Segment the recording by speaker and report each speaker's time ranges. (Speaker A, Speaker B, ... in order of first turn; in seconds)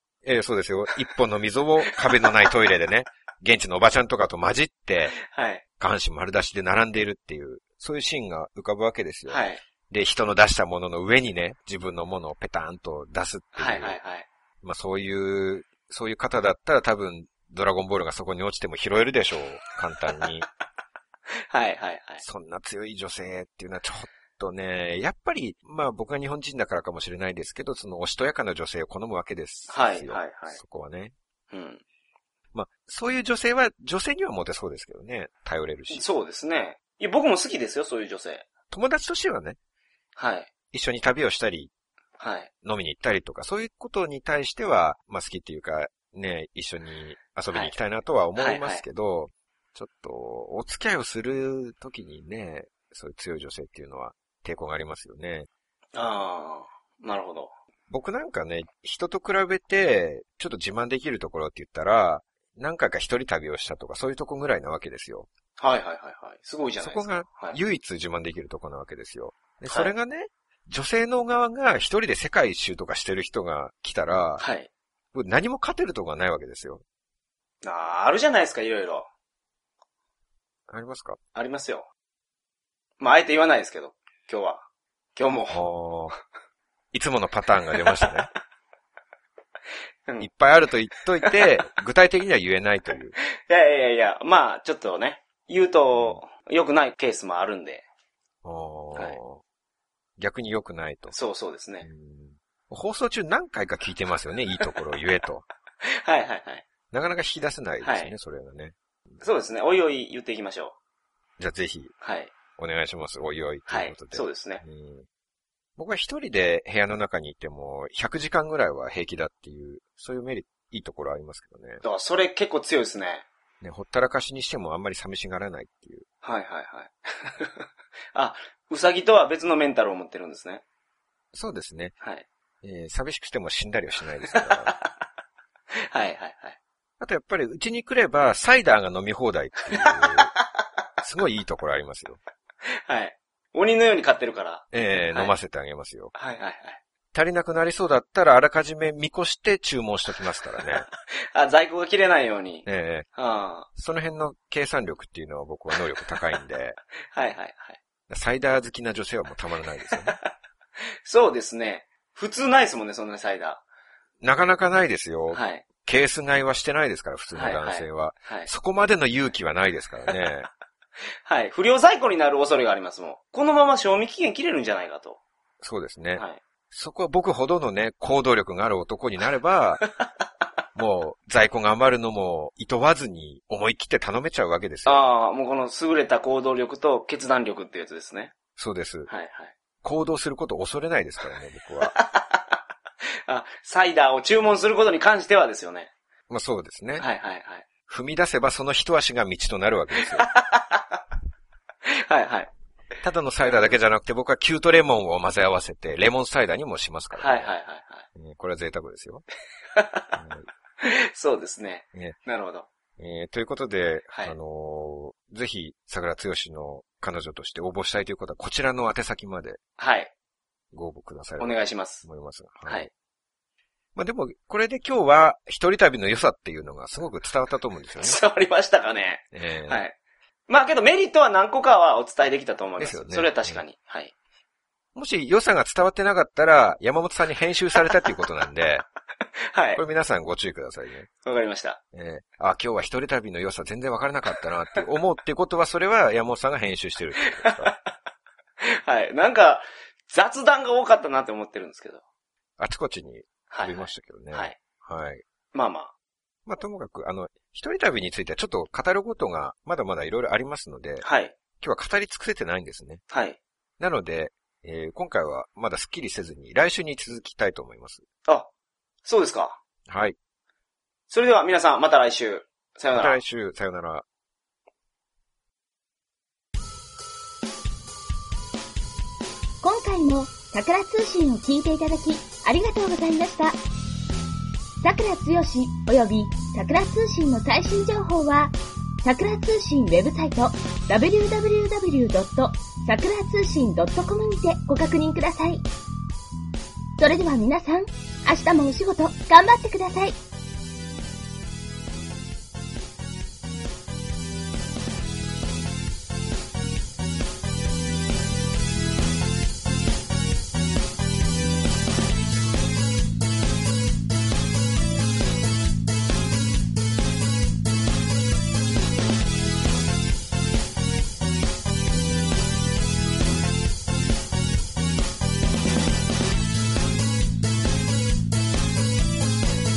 Speaker A: 0.2-5.2, 5.8-14.0, 14.6-20.5, 22.2-31.1, 32.5-36.0, 38.7-39.6, 40.7-41.7, 42.6-55.5, 57.9-65.3, 66.8-74.4, 75.1-76.8, 80.7-81.2, 85.5-86.1, 86.9-88.3, 90.2-93.1, 95.9-96.2, 98.4-99.4, 100.2-101.1, 101.8-105.5, 106.9-108.7, 111.4-111.9, 112.6-115.1, 115.8-121.8, 123.6-126.0, 131.3-131.9, 132.6-134.7, 137.0-140.3, 141.0-142.2, 144.7-146.1, 147.1-150.9, 152.7-153.1, 153.7-156.8, 158.1-160.2, 164.2-170.5, 175.6-179.8, 180.7-185.1, 188.6-189.1, 189.8-191.9, 196.3-197.0, 197.9-200.3, 203.0-207.5, 208.1-209.2, 210.1-210.5, 213.0-219.6, 220.7-222.9, 223.9-228.2, 229.3-229.8, 232.8-233.6, 234.9-238.8, 239.8-241.1, 241.9-247.7, 252.6-255.2, 256.4-261.1, 261.6-263.0, 263.8-268.0, 269.9-270.1, 272.9-274.0
Speaker B: 5.2-5.6, 9.3-9.6, 13.6-14.2, 21.5-22.2, 29.7-30.6, 31.5-31.8, 35.9-38.5, 40.1-40.5, 42.2-42.5, 48.4-48.8, 55.9-57.5, 65.6-67.6, 74.4-74.7, 77.6-79.1, 81.3-81.9, 83.0-84.6, 85.1-85.6, 93.5-97.8, 101.1-101.9, 105.8-106.7, 107.8-108.1, 109.2-110.8, 112.0-112.3, 113.7-114.6, 121.8-123.2, 126.2-127.6, 128.1-130.6, 132.0-132.2, 134.3-134.8, 135.9-136.6, 139.8-140.2, 142.7-145.3, 146.1-146.8, 151.3-153.7, 157.1-157.8, 161.0-163.6, 165.3-165.6, 167.3-168.5, 171.2-175.2, 184.8-188.3, 189.1-189.5, 191.8-192.5, 193.2-195.9, 197.0-197.6, 200.2-201.0, 201.8-202.5, 207.1-208.1, 209.7-210.1, 210.8-212.7, 219.8-220.1, 221.4-222.0, 228.0-229.9, 230.5-234.1, 239.5-239.8, 241.2-241.8, 247.2-247.8, 248.6-252.0, 253.5-254.6, 255.5-255.9, 261.0-261.3, 263.1-263.4, 269.0-269.6, 271.1-273.2
Speaker C: 279.6-283.6, 284.8-295.6, 297.0-300.1